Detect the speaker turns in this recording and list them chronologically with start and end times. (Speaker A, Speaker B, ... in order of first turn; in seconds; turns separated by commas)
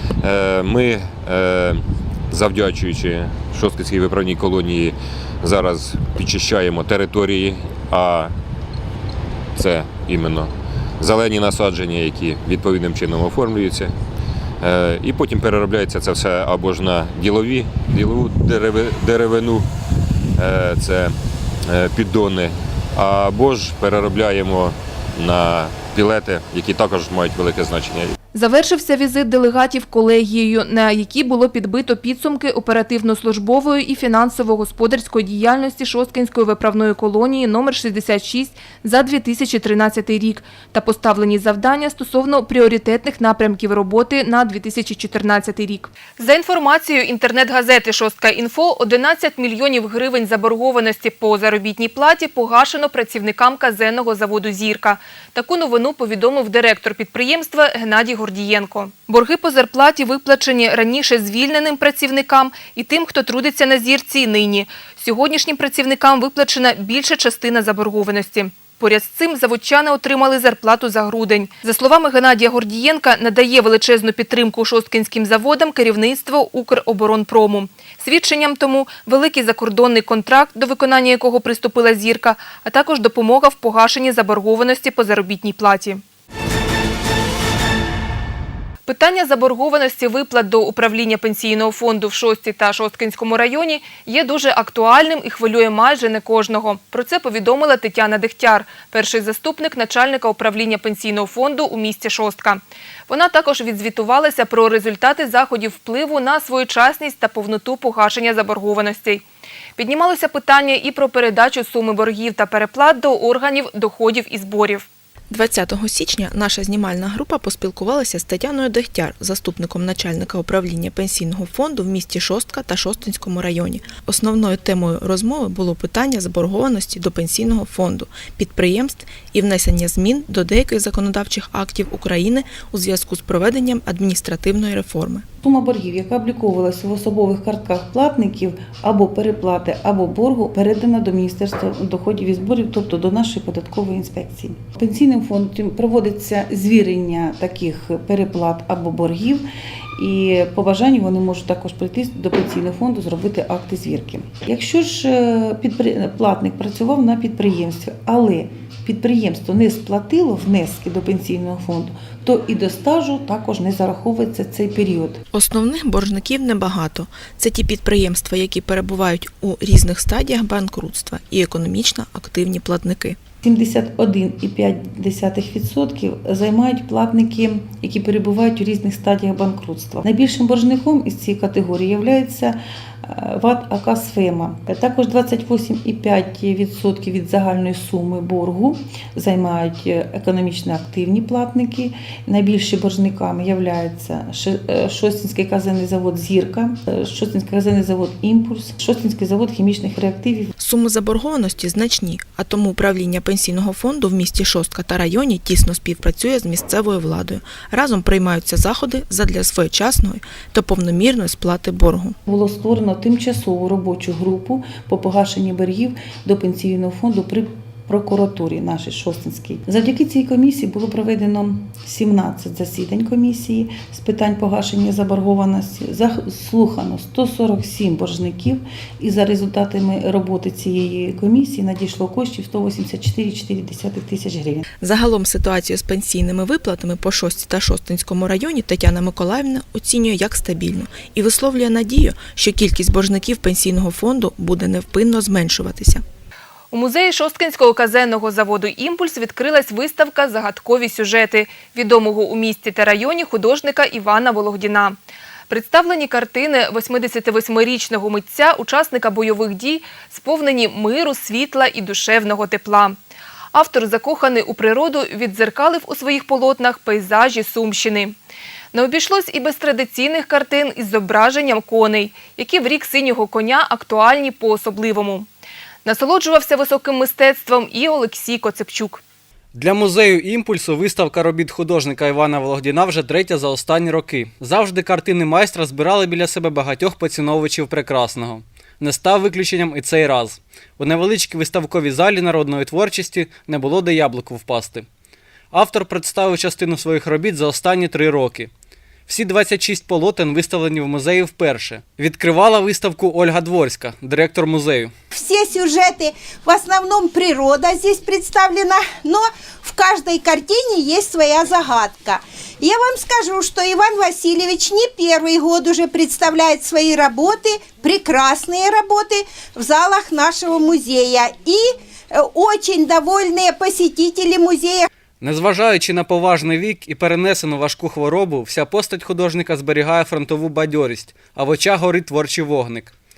Speaker A: 0.2-8.3, Speaker A: 9.6-13.9, Speaker A: 14.6-19.7, Speaker A: 20.4-21.2, Speaker A: 21.7-28.1, Speaker B: 28.3-86.0, Speaker B: 88.9-109.2, Speaker B: 109.8-114.8, Speaker C: 115.3-135.2, Speaker D: 135.4-165.2, Speaker C: 165.3-173.2, Speaker D: 173.4-200.5, Speaker C: 200.6-212.2, Speaker D: 212.3-234.6, Speaker C: 234.8-246.0, Speaker B: 246.7-255.0, Speaker B: 255.5-263.0, Speaker B: 263.5-268.2, Speaker B: 268.7-275.3, Speaker B: 275.9-279.0, Speaker E: 279.5-294.9, Speaker E: 295.5-298.5, Speaker E: 299.1-304.9, Speaker F: 305.2-321.6, Speaker F: 322.4-324.8, Speaker E: 325.2-332.9